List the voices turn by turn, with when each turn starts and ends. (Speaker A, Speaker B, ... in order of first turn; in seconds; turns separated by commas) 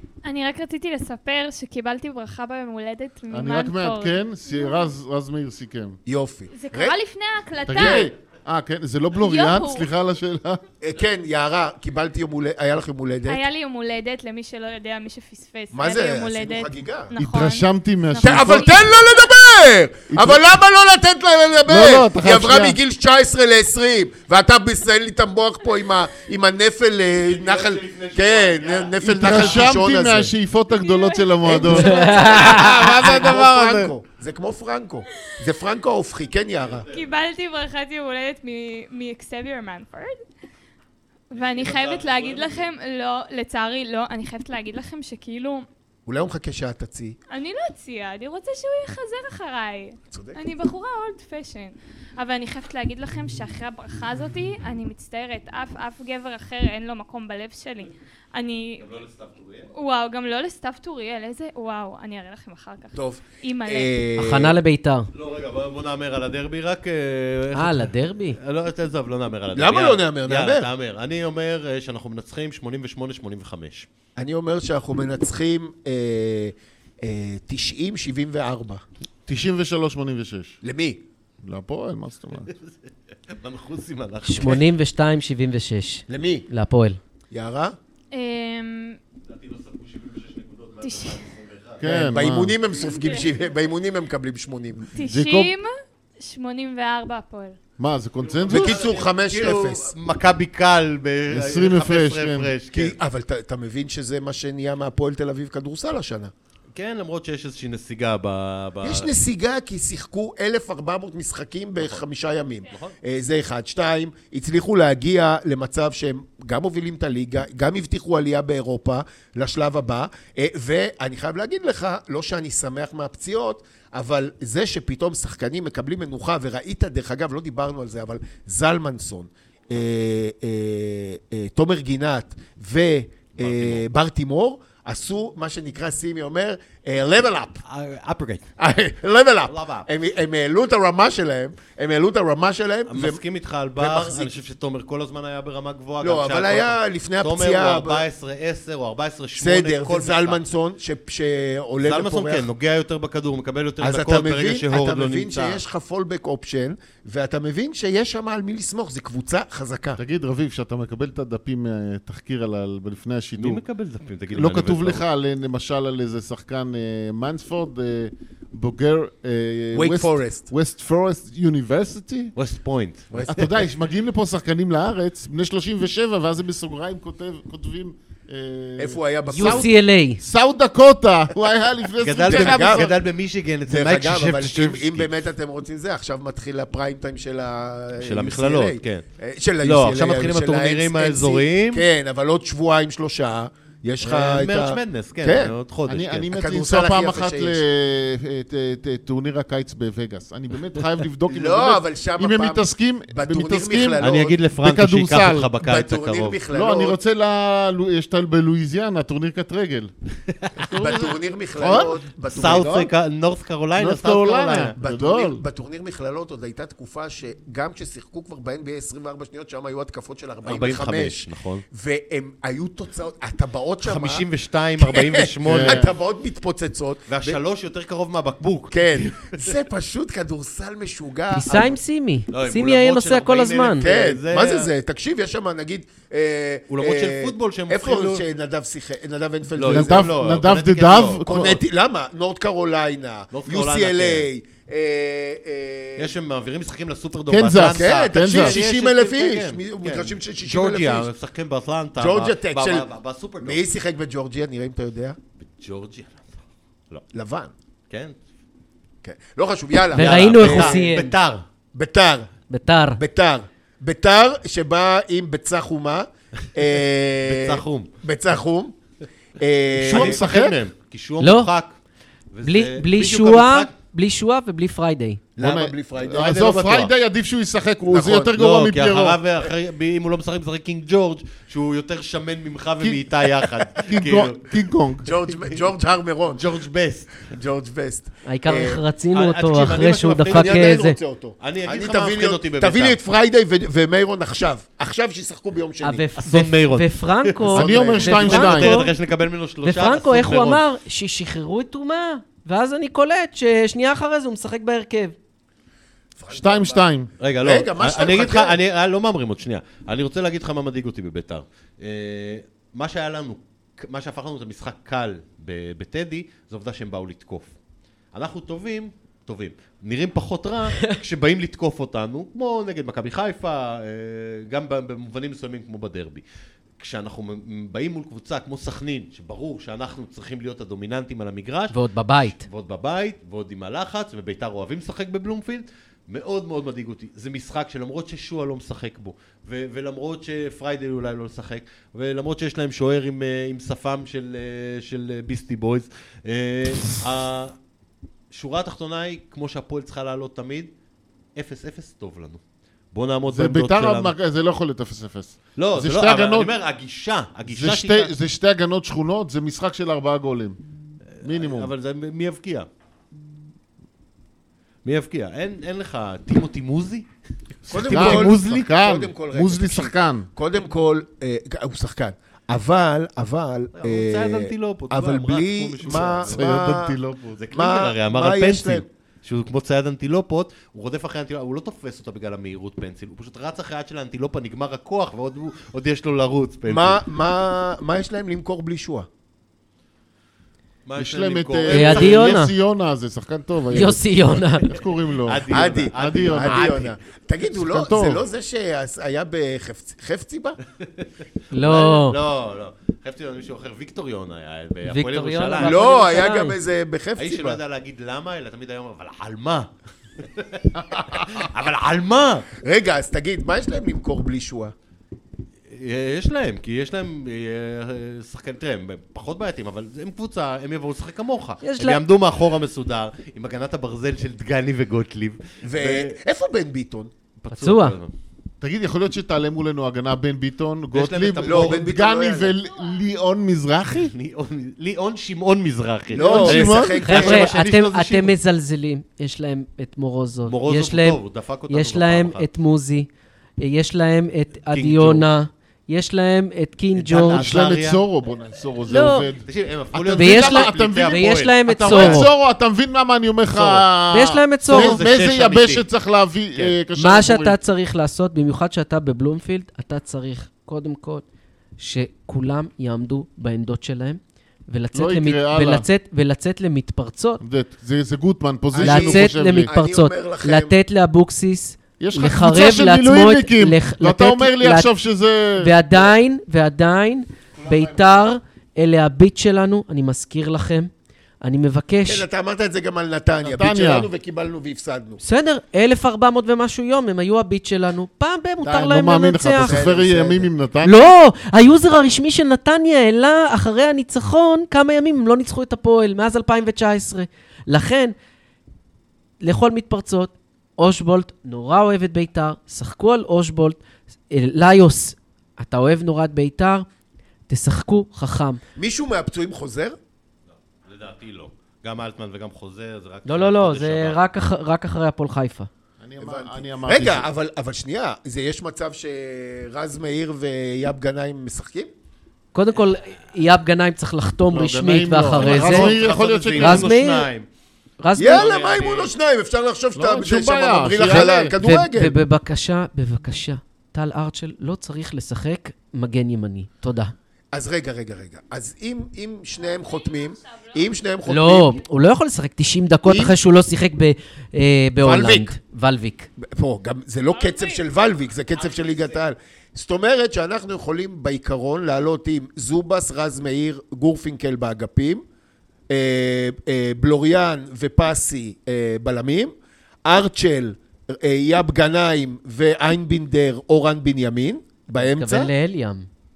Speaker A: 0.2-4.9, Speaker B: 3.3-6.0, Speaker C: 6.1-7.0, Speaker A: 6.5-8.1, Speaker B: 7.7-10.6, Speaker C: 7.8-8.1, Speaker A: 9.2-9.9, Speaker C: 10.8-13.4, Speaker A: 13.3-19.0, Speaker C: 15.7-17.1, Speaker B: 17.2-18.8, Speaker C: 18.2-30.3, Speaker B: 20.1-20.5, Speaker B: 21.7-22.8, Speaker D: 27.2-29.7, Speaker B: 29.0-33.9, Speaker A: 30.8-32.2, Speaker C: 31.4-36.9, Speaker E: 31.7-33.0, Speaker D: 36.6-37.1, Speaker A: 36.9-40.2, Speaker A: 41.3-45.7, Speaker D: 41.3-42.7, Speaker C: 46.1-47.2, Speaker A: 47.3-58.9, Speaker C: 50.1-50.4, Speaker D: 58.8-59.7, Speaker A: 59.7-63.9, Speaker C: 63.0-64.6, Speaker E: 64.2-65.1, Speaker D: 65.1-73.9, Speaker E: 67.5-68.4, Speaker C: 69.5-70.7, Speaker C: 74.2-78.8, Speaker B: 79.3-80.6, Speaker C: 80.6-81.0, Speaker B: 81.4-82.5, Speaker D: 83.3-84.7, Speaker E: 84.2-87.0, Speaker C: 86.1-86.5, Speaker C: 87.3-87.8, Speaker A: 88.1-89.0, Speaker D: 89.3-92.1, Speaker A: 90.8-91.2, Speaker B: 91.8-92.6, Speaker C: 91.8-94.9, Speaker A: 92.9-93.2, Speaker A: 95.0-97.6, Speaker B: 95.0-95.5, Speaker B: 97.8-98.9, Speaker D: 98.2-103.0, Speaker C: 98.5-99.9, Speaker B: 101.3-102.5, Speaker C: 102.7-106.3, Speaker D: 106.8-109.1, Speaker C: 108.8-137.6, Speaker D: 111.8-112.0, Speaker D: 112.7-113.0, Speaker D: 133.4-133.8, Speaker D: 137.7-138.5, Speaker C: 138.6-143.2, Speaker D: 139.5-139.9, Speaker D: 142.9-150.4, Speaker C: 143.8-144.3, Speaker C: 146.0-148.1, Speaker C: 149.4-152.5, Speaker D: 151.8-155.6, Speaker C: 153.8-160.0, Speaker B: 160.0-163.6, Speaker D: 163.4-165.0, Speaker B: 164.3-172.3, Speaker C: 169.7-170.5, Speaker D: 172.4-173.5, Speaker C: 173.1-173.4, Speaker B: 173.3-179.7, Speaker C: 178.8-179.7, Speaker E: 179.3-180.2, Speaker B: 180.2-182.9, Speaker D: 182.0-185.2, Speaker C: 182.2-182.9, Speaker C: 183.7-195.5, Speaker D: 188.0-189.1, Speaker D: 189.6-191.9, Speaker D: 194.0-196.3, Speaker B: 195.9-204.1, Speaker C: 196.3-197.6, Speaker C: 201.3-204.4, Speaker D: 204.0-206.4, Speaker B: 204.6-205.5, Speaker C: 205.6-207.0, Speaker B: 206.5-209.9, Speaker D: 210.4-210.8, Speaker B: 210.7-212.7, Speaker C: 210.7-212.9, Speaker D: 212.3-214.8, Speaker B: 213.8-215.4, Speaker C: 214.8-224.2, Speaker D: 220.4-221.7, Speaker D: 223.8-225.9, Speaker C: 224.8-227.4, Speaker B: 225.4-225.9, Speaker D: 227.1-229.5, Speaker C: 228.7-231.8, Speaker E: 231.3-233.9, Speaker D: 232.3-234.7, Speaker C: 233.8-240.1, Speaker D: 236.7-238.2, Speaker D: 239.6-241.5, Speaker B: 239.7-241.6, Speaker C: 241.2-246.1, Speaker D: 243.3-244.3, Speaker D: 246.0-253.6, Speaker B: 247.3-248.6, Speaker C: 247.6-251.1, Speaker C: 252.0-252.9, Speaker C: 253.4-255.2, Speaker D: 255.6-256.4, Speaker C: 257.1-257.5, Speaker D: 257.9-258.1, Speaker C: 259.0-260.9, Speaker E: 259.9-261.1, Speaker D: 259.9-261.4, Speaker C: 261.7-262.3, Speaker E: 262.5-263.0, Speaker C: 263.0-268.7, Speaker D: 267.2-267.9, Speaker C: 269.4-270.2, Speaker D: 269.8-271.7, Speaker B: 269.9-270.6, Speaker E: 271.2-271.5, Speaker D: 272.3-273.7, Speaker E: 272.4-275.2, Speaker C: 275.4-276.9, Speaker B: 275.4-279.2, Speaker C: 277.9-278.3, Speaker D: 278.4-284.5, Speaker B: 283.8-285.1, Speaker C: 285.1-286.4, Speaker D: 286.3-287.3, Speaker C: 287.2-288.8, Speaker E: 288.3-291.0, Speaker D: 289.1-290.8, Speaker C: 290.3-296.1, Speaker D: 291.4-293.0, Speaker E: 295.8-298.9, Speaker D: 296.2-300.6, Speaker B: 297.5-298.8, Speaker C: 297.6-298.1, Speaker E: 299.6-305.2, Speaker C: 306.2-306.9, Speaker B: 306.3-307.1, Speaker D: 307.2-317.6, Speaker C: 307.4-308.6, Speaker D: 318.1-326.2, Speaker D: 326.8-347.6, Speaker E: 331.7-332.4, Speaker D: 348.3-350.7, Speaker D: 351.4-352.4, Speaker D: 352.9-354.1, Speaker B: 353.3-356.5, Speaker D: 355.6-358.1, Speaker B: 357.5-360.6, Speaker D: 361.2-362.7, Speaker B: 361.2-361.7, Speaker D: 364.9-367.1, Speaker D: 367.7-368.6, Speaker C: 367.7-377.0, Speaker B: 367.9-370.3, Speaker D: 373.7-376.7, Speaker B: 375.9-377.4, Speaker D: 377.2-387.0, Speaker C: 377.5-378.9, Speaker C: 386.7-389.1, Speaker D: 390.9-392.5, Speaker B: 391.0-396.8, Speaker E: 391.7-392.5, Speaker E: 393.7-394.7, Speaker D: 395.2-396.9, Speaker C: 395.5-400.6, Speaker B: 397.5-398.2, Speaker D: 400.9-405.8, Speaker E: 401.5-402.2, Speaker E: 404.9-406.6, Speaker C: 405.6-407.6, Speaker D: 407.2-412.5, Speaker C: 412.6-414.7, Speaker D: 415.7-426.2, Speaker E: 421.6-422.0, Speaker C: 425.6-427.1, Speaker D: 427.4-428.1, Speaker E: 427.5-428.0, Speaker B: 428.6-434.1, Speaker D: 430.9-431.9, Speaker C: 431.4-432.6, Speaker D: 434.0-438.4, Speaker C: 436.1-437.5, Speaker B: 436.2-437.0, Speaker E: 437.0-441.2, Speaker D: 440.5-442.5, Speaker E: 441.7-443.1, Speaker E: 443.6-447.5, Speaker D: 444.7-445.3, Speaker D: 446.9-448.0, Speaker B: 447.3-457.6, Speaker E: 448.9-449.3, Speaker D: 449.4-452.3, Speaker E: 450.2-452.3, Speaker D: 453.6-453.8, Speaker E: 454.1-455.0, Speaker D: 454.7-455.9, Speaker E: 457.0-461.2, Speaker E: 461.8-467.4, Speaker B: 464.9-465.9, Speaker B: 467.4-469.7, Speaker C: 468.7-470.8, Speaker E: 468.8-474.9, Speaker B: 472.0-475.8, Speaker E: 475.6-480.9, Speaker C: 477.6-478.2, Speaker E: 481.4-482.3, Speaker C: 482.1-485.2, Speaker B: 483.4-484.1, Speaker E: 485.2-489.9, Speaker B: 488.6-491.0, Speaker C: 489.6-490.5, Speaker E: 490.8-498.1, Speaker E: 499.4-503.8, Speaker E: 504.3-506.9, Speaker E: 507.5-508.6, Speaker C: 508.8-510.0, Speaker D: 510.9-514.2, Speaker E: 513.3-515.7, Speaker B: 516.0-517.3, Speaker C: 516.2-521.9, Speaker E: 522.5-526.0, Speaker B: 524.5-526.9, Speaker D: 525.4-527.5, Speaker E: 526.6-527.3, Speaker E: 528.0-528.5, Speaker C: 528.2-532.2, Speaker D: 528.2-529.1, Speaker B: 530.0-531.6, Speaker E: 531.6-537.1, Speaker C: 537.5-541.8, Speaker E: 541.3-546.3, Speaker C: 543.0-543.4, Speaker C: 545.0-545.5, Speaker C: 546.4-555.2, Speaker A: 547.4-547.8, Speaker D: 548.5-549.2, Speaker C: 555.9-559.5, Speaker C: 560.0-565.5, Speaker E: 565.0-566.1